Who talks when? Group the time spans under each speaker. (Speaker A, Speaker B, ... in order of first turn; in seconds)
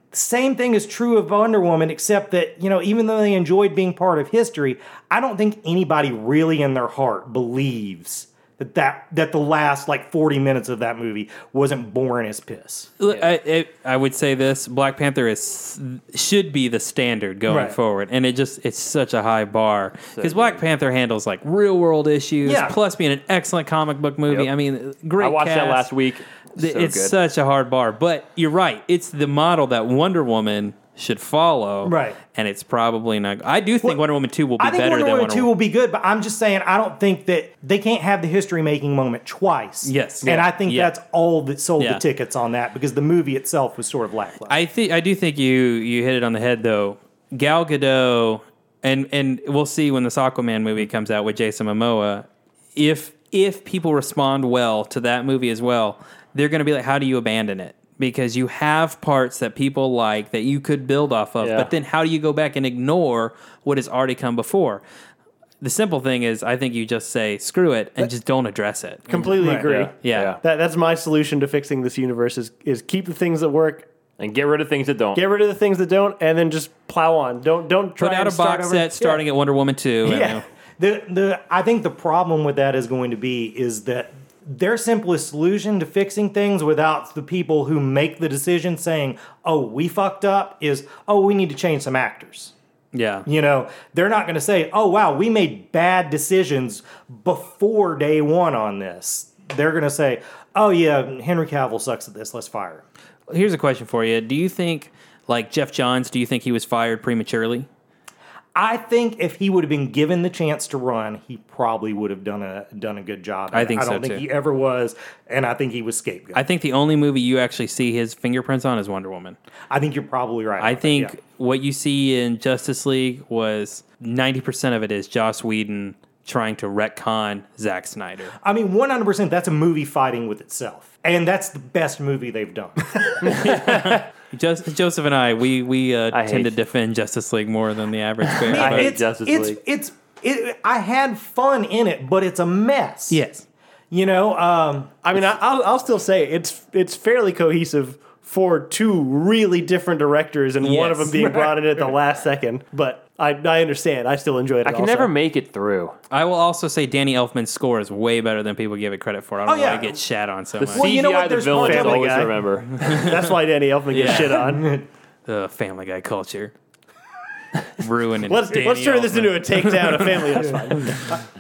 Speaker A: 0.1-12.9, 17.5-17.8, 22.4-22.8, 31.9-32.2, 34.6-44.6, 69.4-69.7, 80.8-92.5, 93.3-102.9, 108.5-116.4, 119.7-121.2, 128.4-133.5, 138.5-143.2, 143.9-145.0, 151.1-151.9, 159.5-160.0, 160.7-162.3, 164.3-164.9
Speaker B: 13.0-25.9, 26.6-35.5, 39.8-40.9, 44.5-64.8, 65.6-69.5, 70.0-70.4, 78.0-80.4, 92.9-93.3, 103.3-107.7, 113.5-114.2, 116.3-119.4, 120.6-128.3, 133.3-138.9, 143.1-143.4, 150.6-151.2, 156.1-160.8, 162.8-163.2, 163.9-164.6, 165.3-166.5, 167.8-171.0
Speaker C: 13.1-13.3, 20.1-20.6, 25.2-27.1, 61.4-61.7, 69.7-70.4, 74.2-75.2, 133.4-134.0, 136.1-136.6, 138.2-139.6, 154.6-156.0, 160.6-162.8
Speaker D: 69.1-73.9, 75.2-79.2, 80.0-80.4, 145.0-155.1, 161.5-164.7, 168.2-171.2